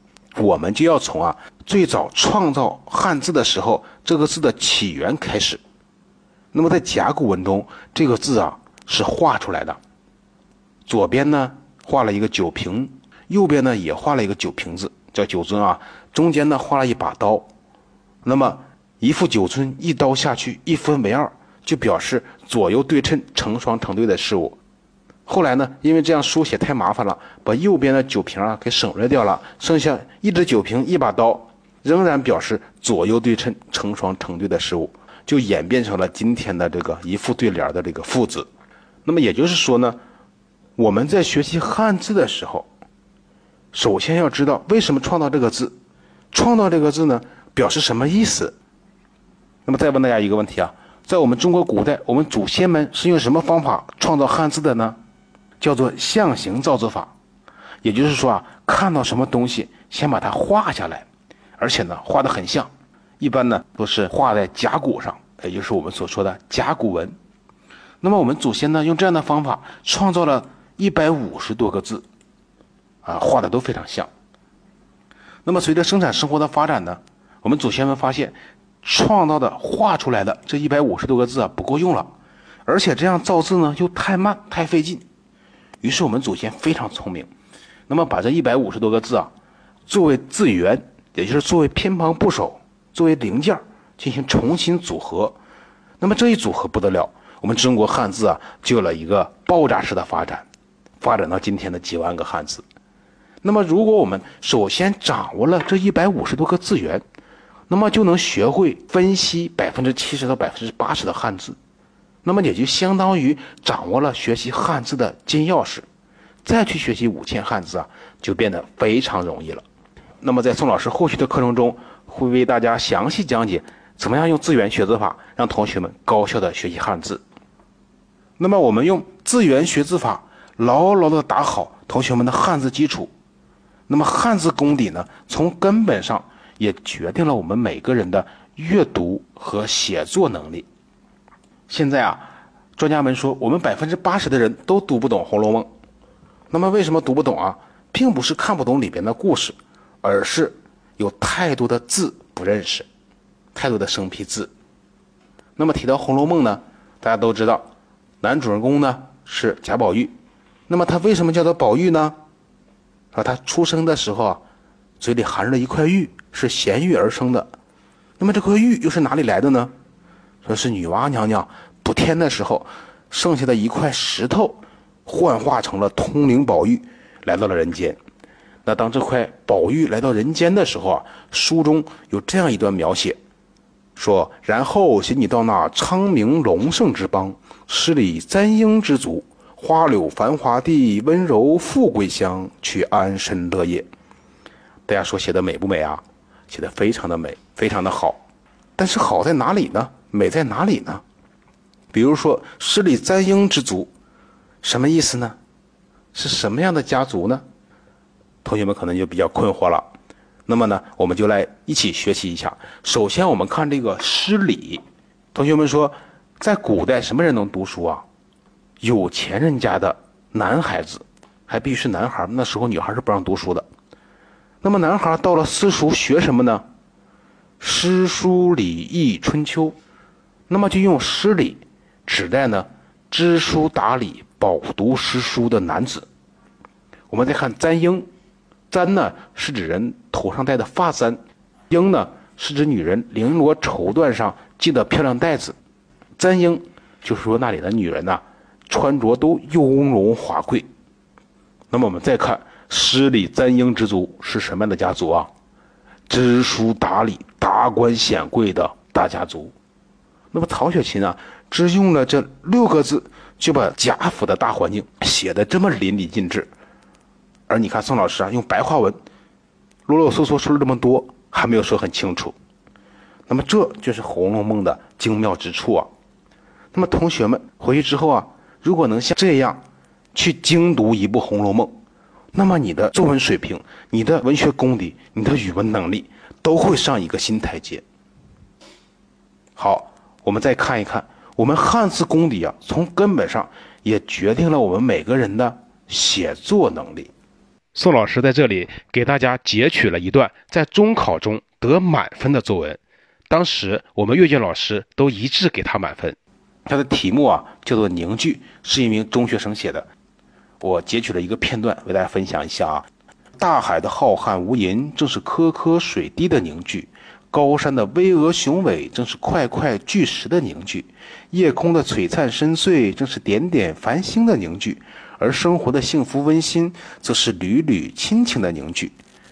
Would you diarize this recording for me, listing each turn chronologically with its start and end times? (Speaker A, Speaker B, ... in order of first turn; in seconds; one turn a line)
Speaker A: 0.3-5.6
Speaker A: 6.5-9.8
Speaker A: 10.8-17.5
Speaker A: 18.2-24.6
Speaker A: 25.3-38.5
Speaker A: 39.0-40.0
Speaker A: 40.8-42.7
Speaker A: 43.7-45.7
Speaker A: 46.3-48.5
Speaker A: 49.6-55.0
Speaker A: 55.6-57.1
Speaker A: 57.8-61.0
Speaker A: 61.6-67.1
Speaker A: 68.0-72.0
Speaker A: 73.0-74.1
Speaker A: 75.4-82.1
Speaker A: 82.7-85.0
Speaker A: 85.8-87.3
Speaker A: 87.9-89.3
Speaker A: 89.9-95.3
Speaker A: 96.0-100.5
Speaker A: 101.0-102.6
Speaker A: 103.4-107.0
Speaker A: 107.7-111.6
Speaker A: 112.2-115.8
Speaker A: 116.4-119.6
Speaker A: 120.2-127.2
Speaker A: 128.4-133.1
Speaker A: 133.9-140.7
Speaker A: 141.7-145.7
Speaker A: 146.5-152.8
Speaker A: 153.5-154.5
Speaker A: 155.6-157.6
Speaker A: 158.2-160.1
Speaker A: 160.7-162.1
Speaker A: 163.1-164.4
Speaker A: 165.0-167.5
Speaker A: 168.2-169.7
Speaker A: 170.4-178.0
Speaker A: 178.6-183.2
Speaker A: 183.9-193.8
Speaker A: 194.9-198.2
Speaker A: 198.8-201.0
Speaker A: 201.9-203.9
Speaker A: 204.6-205.3
Speaker A: 206.1-207.4
Speaker A: 208.4-209.8
Speaker A: 210.5-214.8
Speaker A: 215.3-218.0
Speaker A: 218.8-223.7
Speaker A: 224.6-226.6
Speaker A: 227.6-229.8
Speaker A: 230.5-236.1
Speaker A: 237.1-238.1
Speaker A: 238.7-241.2
Speaker A: 241.7-245.6
Speaker A: 246.2-250.7
Speaker A: 251.7-255.3
Speaker A: 256.1-259.5
Speaker A: 260.3-266.5
Speaker A: 267.5-269.0
Speaker A: 269.9-272.3
Speaker A: 273.3-275.9
Speaker A: 276.7-279.6
Speaker A: 280.1-281.7
Speaker A: 282.3-287.8
Speaker A: 289.6-297.1
Speaker A: 297.7-309.9
Speaker A: 310.6-312.8
Speaker A: 313.4-328.9